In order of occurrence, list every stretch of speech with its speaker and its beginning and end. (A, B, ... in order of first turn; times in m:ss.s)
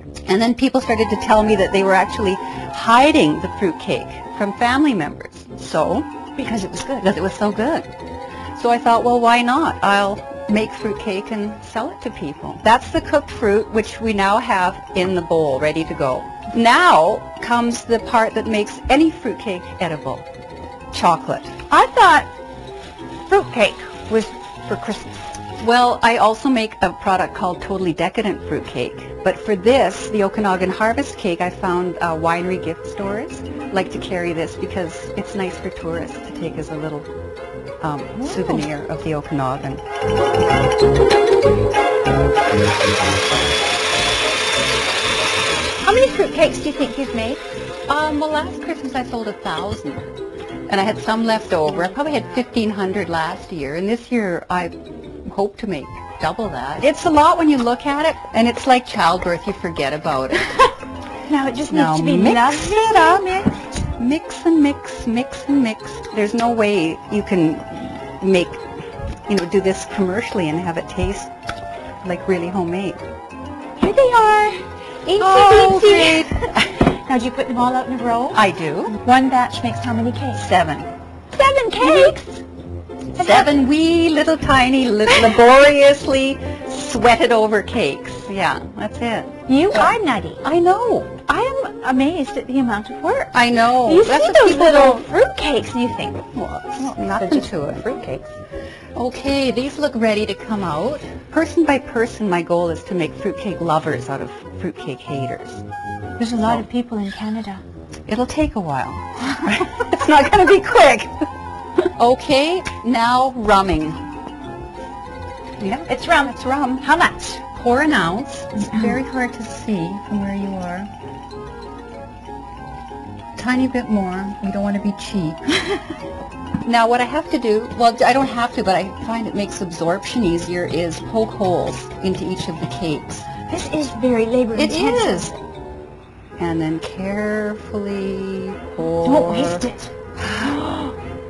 0:00.3-0:06.3 A
0:06.4-0:07.0 B
0:06.8-0:07.9 A
0:08.6-0:20.2 A
0:20.9-0:21.6 A
0:21.7-0:22.3 B
0:23.3-0:25.3 B
0:25.6-0:37.1 A
0:37.8-0:39.8 A
0:38.2-0:38.6 B
0:45.8-0:47.4 B
0:47.9-0:50.0 A
0:50.7-1:00.7 A
1:01.3-1:03.6 B
1:01.7-1:08.6 A
1:09.3-1:11.3 A
1:12.0-1:13.0 A
1:13.8-1:20.4 B
1:15.2-1:16.5 A
1:18.3-1:19.0 A
1:20.3-1:20.9 A
1:21.3-1:22.4 B
1:21.8-1:22.1 A
1:23.1-1:23.5 B
1:23.1-1:31.2 A
1:29.5-1:30.4 B
1:31.3-1:38.3 B
1:33.3-1:35.1 A
1:36.3-1:37.8 A
1:39.0-1:45.6 A
1:46.2-1:47.6 B
1:48.1-1:51.2 A
1:52.0-1:54.0 A
1:55.6-1:56.8 A
1:55.9-1:57.4 B
1:57.4-2:00.9 A
2:03.4-2:05.6 A
2:06.6-2:13.3 A
2:13.4-2:15.3 B
2:14.5-2:15.3 A
2:16.4-2:19.7 A
2:19.0-2:19.9 B
2:20.2-2:20.9 A